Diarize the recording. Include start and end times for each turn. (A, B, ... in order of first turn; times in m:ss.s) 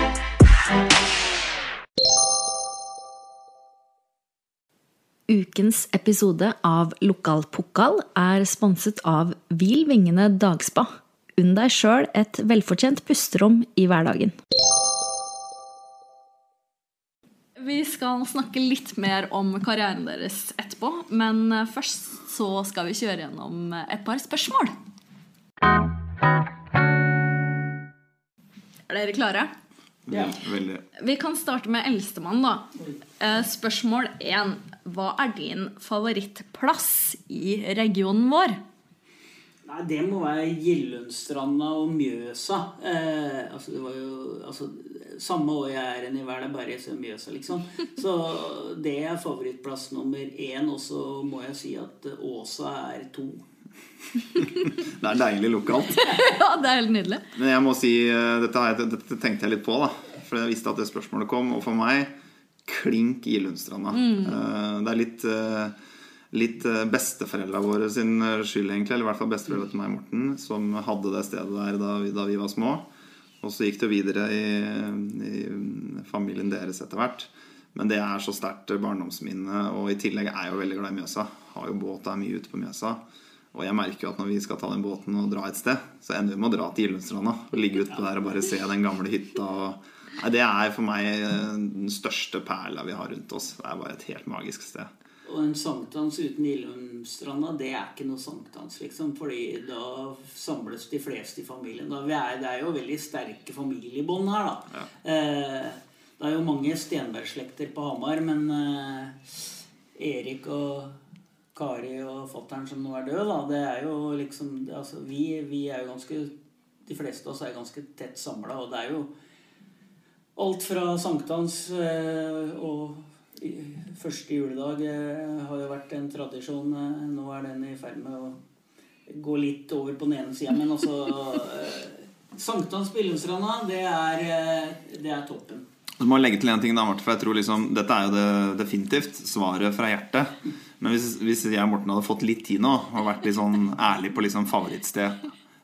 0:05.3-0:14.4 A
0:17.6-0:24.7 A
0:28.9-0:29.5 A
0:30.1-0:30.8 B
0:30.1-0:30.4 C
0:31.0-0:38.6 A
0:39.6-0:53.4 C
0:54.4-0:56.2 B
0:56.0-0:57.2 A
0:57.4-1:02.1 B
1:02.6-1:05.7 B
1:03.9-1:04.4 A
1:06.3-1:12.8 B
1:13.4-1:23.0 B
1:23.5-1:34.9 B
1:35.2-1:51.0 C
1:51.6-1:56.3 C
1:56.9-1:59.1 C
2:00.4-2:08.4 C
2:09.1-2:15.6 C
2:16.0-2:25.3 B